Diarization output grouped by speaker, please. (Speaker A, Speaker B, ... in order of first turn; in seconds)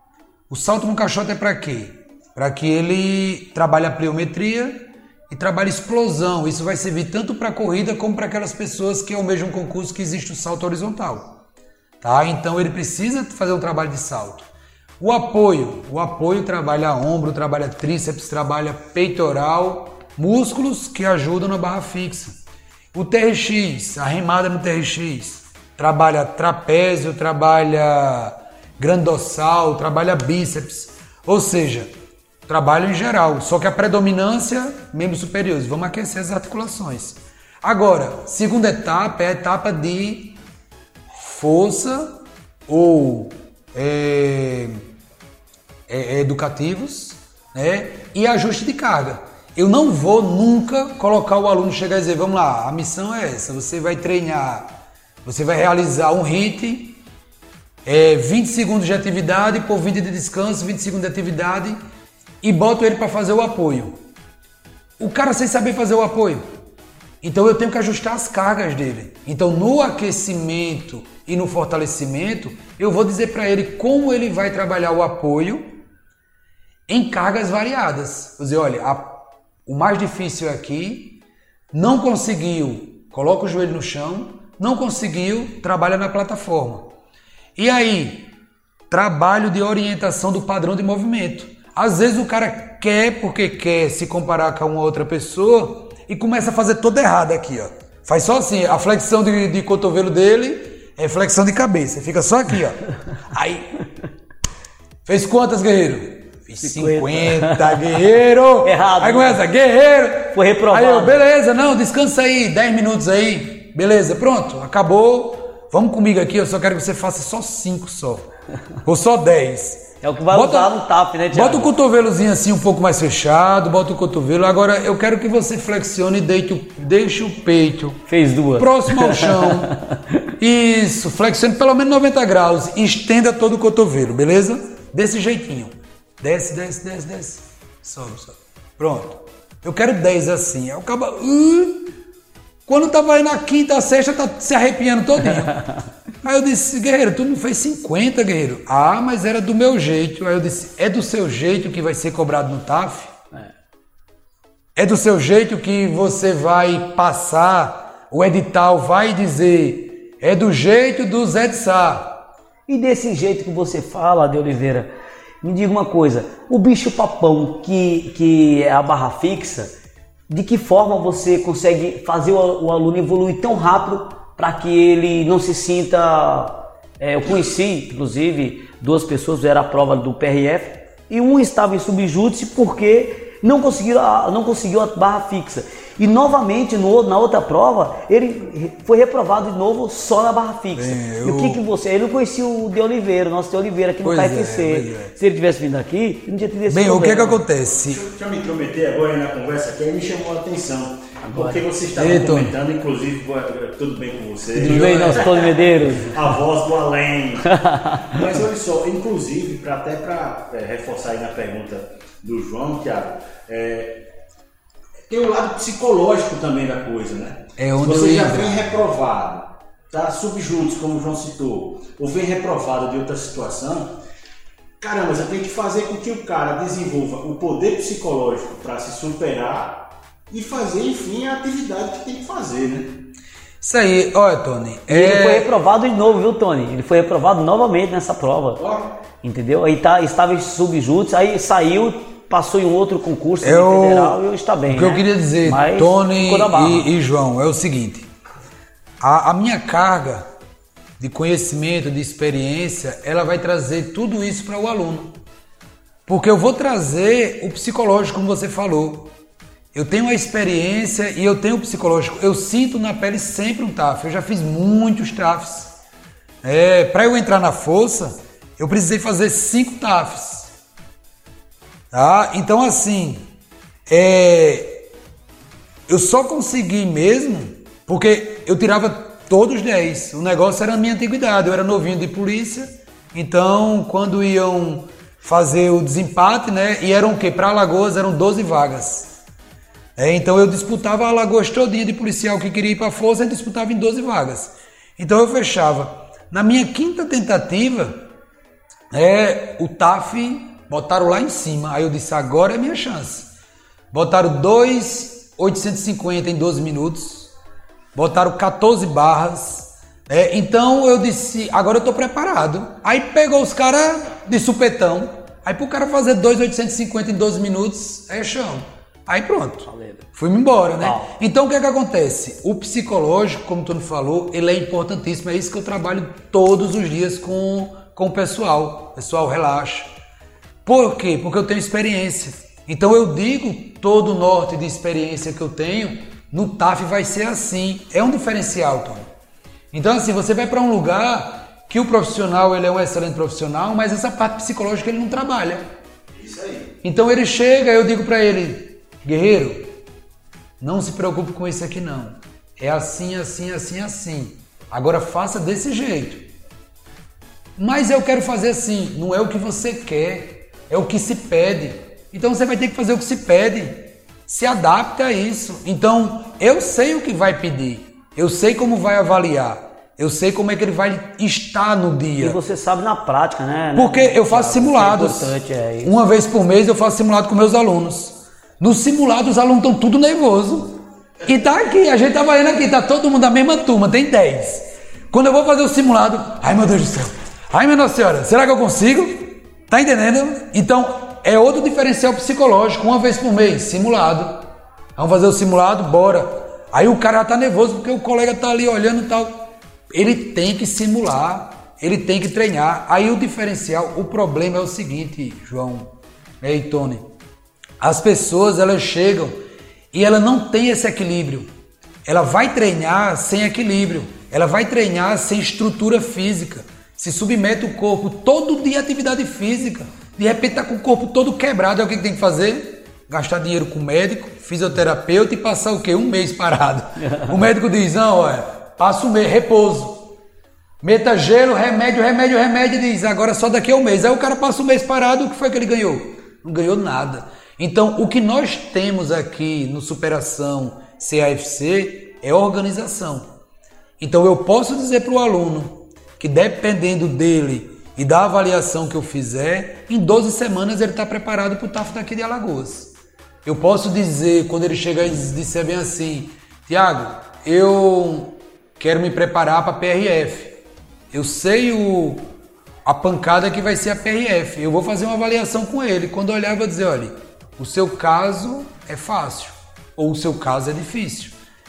Speaker A: 0.5-11.3, 12.0-14.5, 15.0-22.4, 22.9-31.9, 32.5-40.4, 41.1-44.8, 45.9-54.7, 55.2-57.0, 57.9-61.8, 62.4-63.9, 65.0-66.5, 67.2-75.7, 76.9-81.2, 81.7-86.9, 87.6-88.3, 88.9-103.7, 105.0-118.3, 118.8-120.7, 121.3-128.0, 128.6-129.7, 130.4-141.9, 142.7-145.6, 146.2-153.1, 154.8-162.2, 190.7-191.6, 194.0-195.1, 196.7-198.0, 201.9-202.5, 204.6-205.2, 217.6-218.8, 233.6-235.5, 243.4-248.1, 249.0-250.3, 251.0-255.1, 256.1-259.1, 259.7-265.7, 266.4-270.5, 271.9-273.3, 273.9-274.8, 275.9-289.1, 289.9-298.0, 298.9-303.3, 303.9-307.3, 307.9-329.9, 330.6-339.1, 339.7-345.6, 346.8-349.7, 350.6-356.2, 357.6-372.4, 373.7-405.9, 406.4-407.1, 407.8-409.4, 409.9-411.5, 412.1-430.1, 430.8-443.3, 444.0-452.9, 453.4-460.6, 461.1-462.2, 462.8-471.3
Speaker B: 106.6-108.0, 108.6-109.4, 110.3-111.2, 120.0-121.7, 128.1-130.3, 162.7-164.9, 165.4-169.7, 170.3-197.4, 201.2-201.6, 204.5-206.2, 207.5-208.2, 234.9-238.6, 239.2-246.9, 319.6-320.0, 320.8-321.1, 372.2-375.9, 427.0-427.3
Speaker C: 197.8-207.5, 208.1-214.0, 215.1-223.9, 224.8-232.9, 238.6-238.8, 346.2-346.6